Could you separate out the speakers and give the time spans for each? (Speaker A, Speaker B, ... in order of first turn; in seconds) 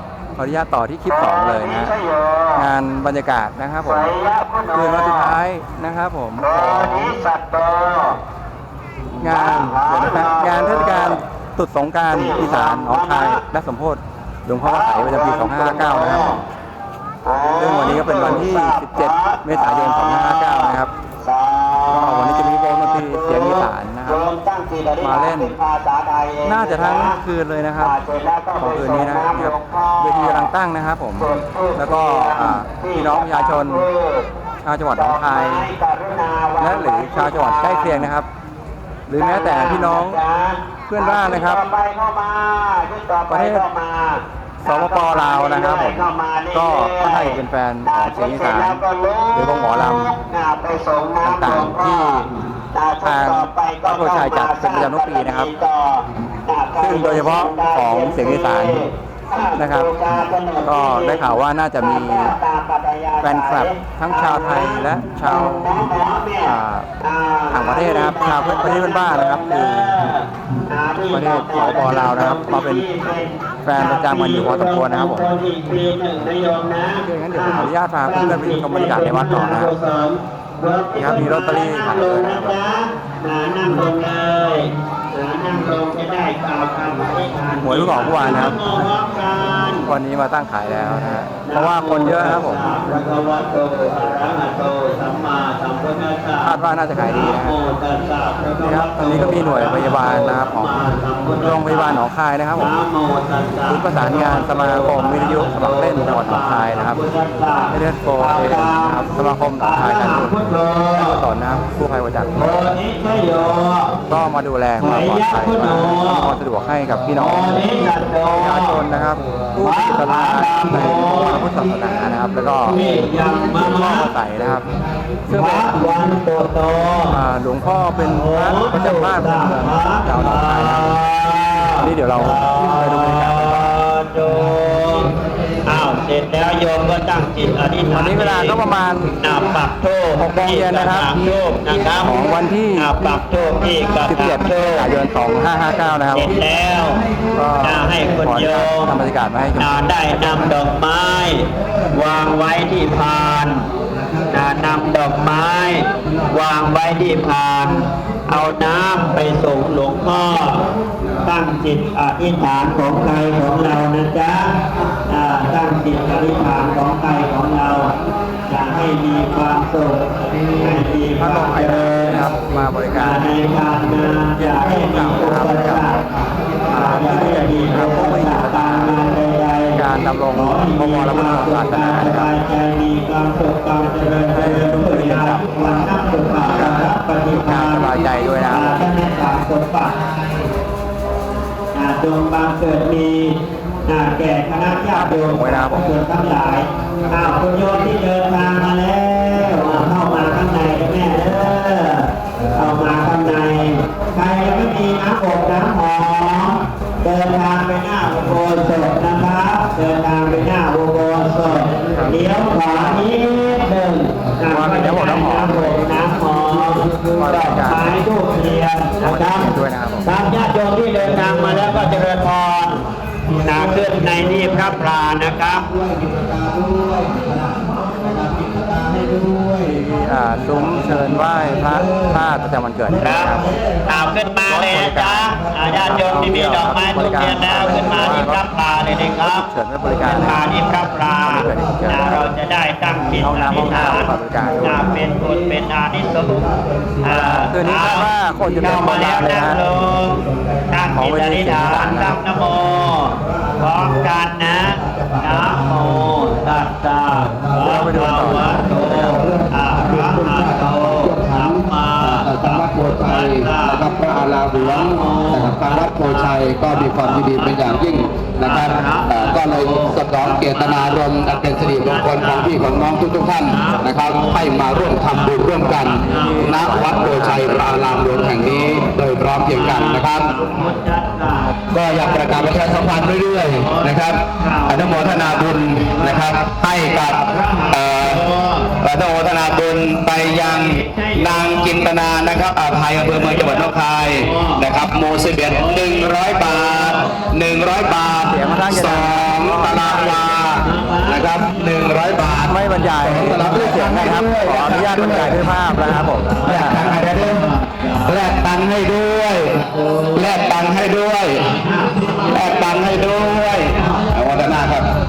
Speaker A: 0.4-1.9, 2.5-4.1, 4.7-7.1, 9.2-16.4, 17.5-20.9, 21.9-24.2, 25.0-25.5, 26.4-27.9, 28.6-33.8, 34.6-35.7, 36.6-38.3, 39.1-40.2, 40.9-41.7, 43.3-43.6, 44.6-48.8, 49.3-50.1, 51.2-52.2, 53.0-55.5, 56.8-58.8, 59.5-62.3, 63.2-65.9, 66.4-66.9, 67.5-70.1, 71.0-72.8, 73.6-75.3, 77.0-79.7, 81.0-82.6, 87.6-88.8, 89.8-92.6, 96.4-97.5, 98.6-100.7, 101.3-102.7, 103.7-107.0, 107.7-110.3, 110.9-112.5, 114.1-124.7, 125.3-125.9, 127.1-131.0, 131.8-133.7, 137.9-139.1, 140.2-141.2, 142.0-142.9, 143.9-146.4, 147.3-150.5, 171.2-175.9, 176.7-179.0, 179.7-182.3, 184.3-185.7, 186.4-188.9, 194.9-195.8, 211.9-212.2, 212.7-213.0, 214.5-217.9, 219.0-220.1, 229.9-233.5, 234.4-238.4, 239.2-242.2, 243.2-244.8, 247.1-249.6, 250.9-252.2, 257.5-259.2, 275.8-278.7, 298.2-300.3, 302.4-306.9
Speaker B: 1.1-2.7, 3.8-5.3, 6.4-8.2, 9.2-11.2, 12.1-13.4, 14.6-16.4, 17.2-27.2, 27.8-30.5, 31.2-34.3, 34.9-38.1, 39.2-89.9, 91.4-102.0, 102.5-109.0, 109.6-111.2, 112.3-114.0, 114.8-116.3, 117.1-118.8, 119.6-121.4, 122.7-124.1, 125.3-127.2, 128.1-135.1, 135.7-138.6, 139.2-144.9, 146.1-147.0, 147.6-148.9, 149.6-153.7, 154.3-160.6, 161.2-167.9, 168.5-170.1, 170.6-172.2, 172.9-176.0, 176.7-189.9, 191.7-222.8, 223.4-225.6, 233.0-239.4, 240.0-288.8, 290.2-297.1, 298.0-298.6, 300.6-301.6, 303.2-308.2, 309.5-310.7, 311.4-314.1
Speaker C: 223.3-224.4, 225.6-229.9, 231.3-232.0, 259.1-280.3, 281.7-287.2, 287.7-288.2, 288.8-305.5, 306.4-307.4, 308.0-309.6, 310.1-311.5, 312.3-314.9